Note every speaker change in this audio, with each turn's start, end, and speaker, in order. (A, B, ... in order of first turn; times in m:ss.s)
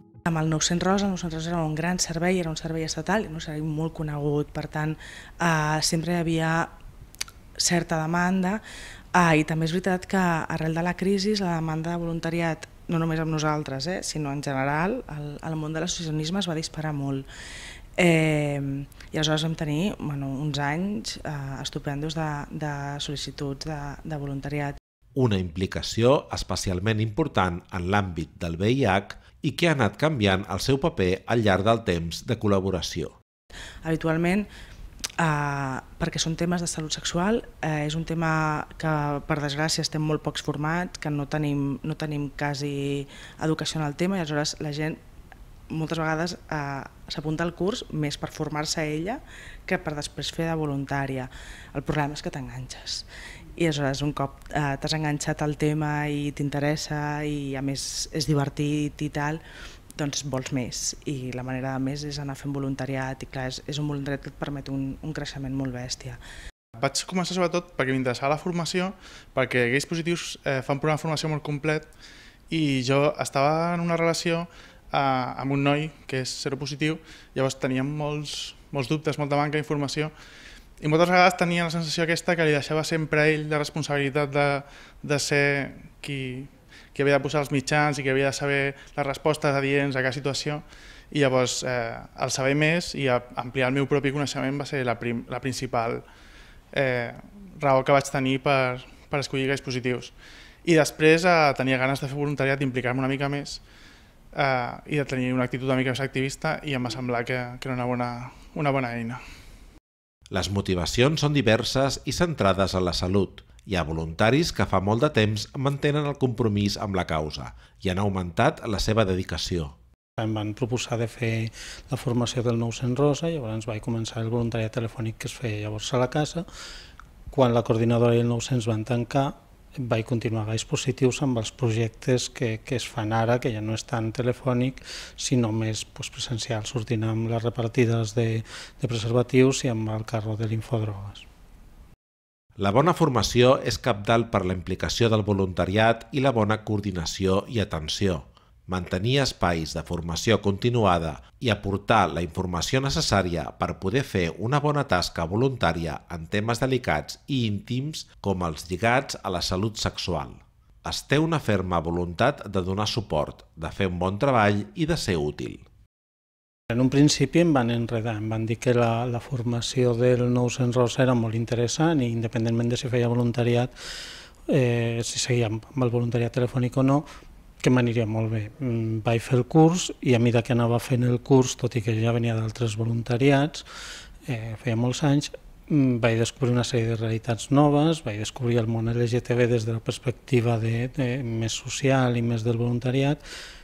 0:00.3-0:06.7 A
0:07.6-0:08.6 A
0:09.1-0:17.3 A
0:18.0-0:24.8 A
0:25.2-0:33.2 B
0:33.8-0:34.5 A
0:35.2-0:45.0 A
0:45.7-0:59.4 A
1:00.0-1:06.2 A
1:06.8-1:11.9 C
1:12.5-1:20.1 C
1:20.8-1:36.0 C
1:36.7-1:43.6 C
1:44.4-1:49.2 C
1:50.3-1:59.8 B
2:00.2-2:06.5 D
2:07.3-2:21.2 D
2:22.6-2:45.6 B
2:46.7-2:53.7 D
2:54.5-2:57.1 D
2:57.6-3:03.7 D
3:04.3-3:13.2 D